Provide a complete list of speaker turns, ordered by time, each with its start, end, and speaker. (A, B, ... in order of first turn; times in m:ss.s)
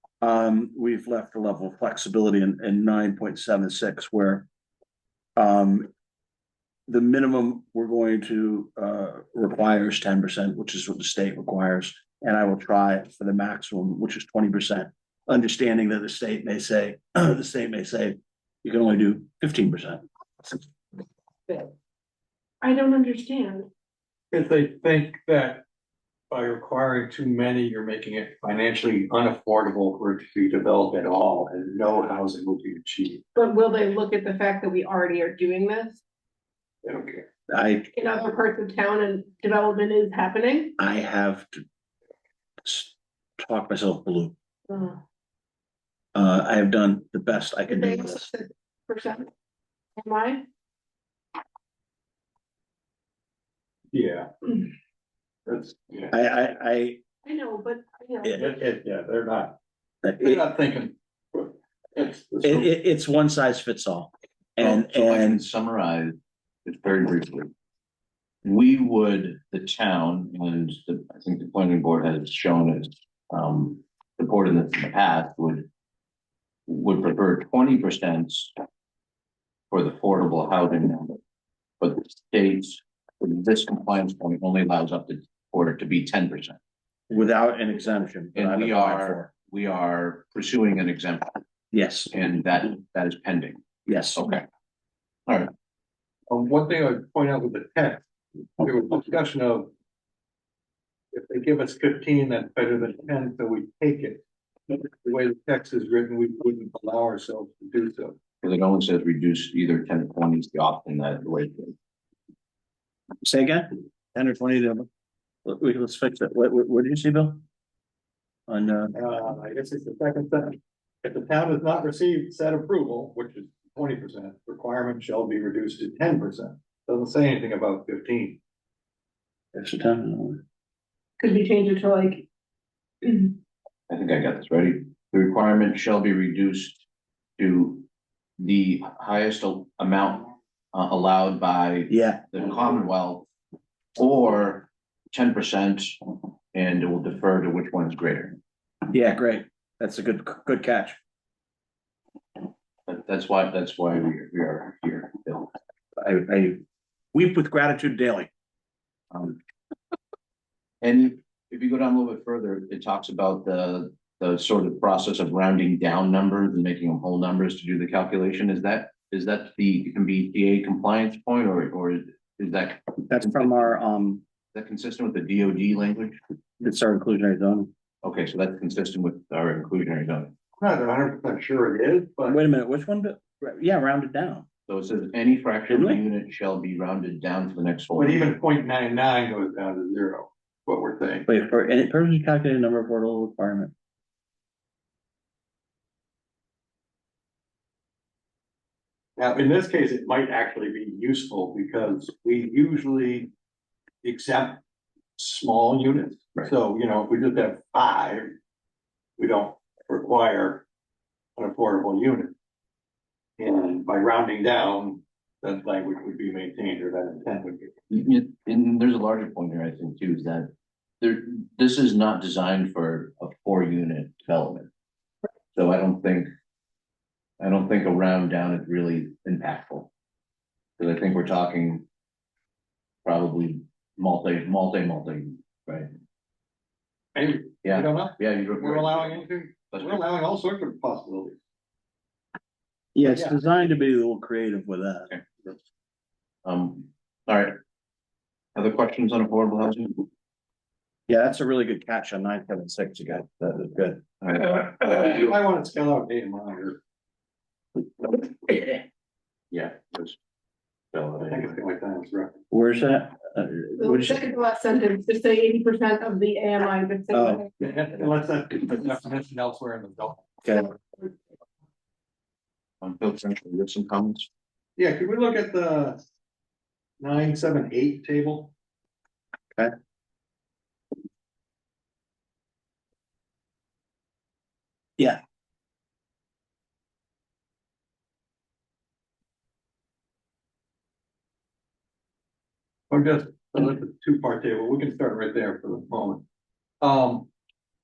0:00.2-0:04.4 A
0:05.4-0:05.9 A
0:06.9-0:20.6 A
0:21.5-0:21.7 B
0:22.6-0:23.7 B
0:24.3-0:25.6 C
0:26.3-0:33.2 C
0:33.3-0:36.0 B
0:36.8-0:37.2 C
0:37.5-0:37.9 A
0:37.9-0:40.8 B
0:40.8-0:41.6 A
0:42.6-0:44.3 A
0:44.7-0:45.0 B
0:46.1-0:48.2 A
0:47.7-0:49.3 B
0:50.0-0:50.4 B
0:53.9-0:54.7 C
0:55.5-0:56.1 C
0:56.1-0:57.0 A
0:57.2-0:58.5 B
0:58.3-0:59.6 C
1:00.0-1:00.4 A
1:00.2-1:02.7 C
1:02.4-1:05.4 A
1:04.6-1:07.5 D
1:08.4-1:15.7 D
1:16.7-1:18.6 D
1:19.7-1:21.2 D
1:21.8-1:26.6 D
1:27.1-1:29.3 A
1:28.3-1:31.4 D
1:31.7-1:32.1 A
1:32.1-1:33.6 D
1:33.8-1:34.2 A
1:34.1-1:34.4 D
1:36.3-1:38.0 C
1:38.6-1:39.7 C
1:41.1-1:48.2 C
1:48.4-1:51.7 D
1:53.2-1:54.9 A
1:55.4-1:57.4 A
1:58.5-1:59.0 A
1:58.9-2:08.4 C
2:09.5-2:10.4 A
2:11.2-2:12.3 B
2:13.0-2:13.4 B
2:13.9-2:16.8 D
2:17.4-2:17.8 D
2:18.4-2:23.3 D
2:21.9-2:22.2 A
2:24.0-2:28.4 D
2:28.9-2:31.0 A
2:32.9-2:35.5 D
2:36.0-2:36.6 A
2:37.1-2:38.3 A
2:39.1-2:39.4 D
2:40.8-2:53.8 D
2:53.1-2:54.2 A
2:54.5-2:56.2 D
2:56.6-2:57.7 A
2:58.0-3:00.3 D
3:00.6-3:02.4 C
3:02.3-3:04.4 A
3:04.7-3:08.2 D
3:05.7-3:06.0 A
3:07.9-3:11.2 C
3:11.3-3:13.7 A
3:19.2-3:23.3 C
3:24.0-3:24.6 C
3:25.2-3:28.4 C
3:29.2-3:30.6 C
3:31.4-3:32.3 C
3:33.4-3:37.8 C
3:37.9-3:40.5 D
3:41.0-3:44.7 D
3:45.5-3:46.3 D
3:47.4-3:49.9 D
3:50.8-3:51.8 D
3:53.0-3:55.9 D
3:57.1-4:01.4 C
3:57.6-4:00.0 D
4:02.9-4:05.1 A
4:03.0-4:03.4 C
4:05.1-4:05.5 D
4:06.4-4:07.6 D
4:08.6-4:10.1 D
4:11.1-4:14.1 A
4:14.2-4:15.1 D
4:15.0-4:16.8 C
4:19.5-4:20.2 D
4:20.9-4:21.5 D
4:21.2-4:22.4 C
4:22.5-4:24.2 A
4:23.8-4:27.5 B
4:27.1-4:27.4 A
4:27.6-4:30.3 C
4:30.4-4:30.7 A
4:32.8-4:34.3 D
4:34.8-4:36.0 C
4:37.0-4:38.5 C
4:52.9-4:56.2 C
4:56.8-4:57.3 C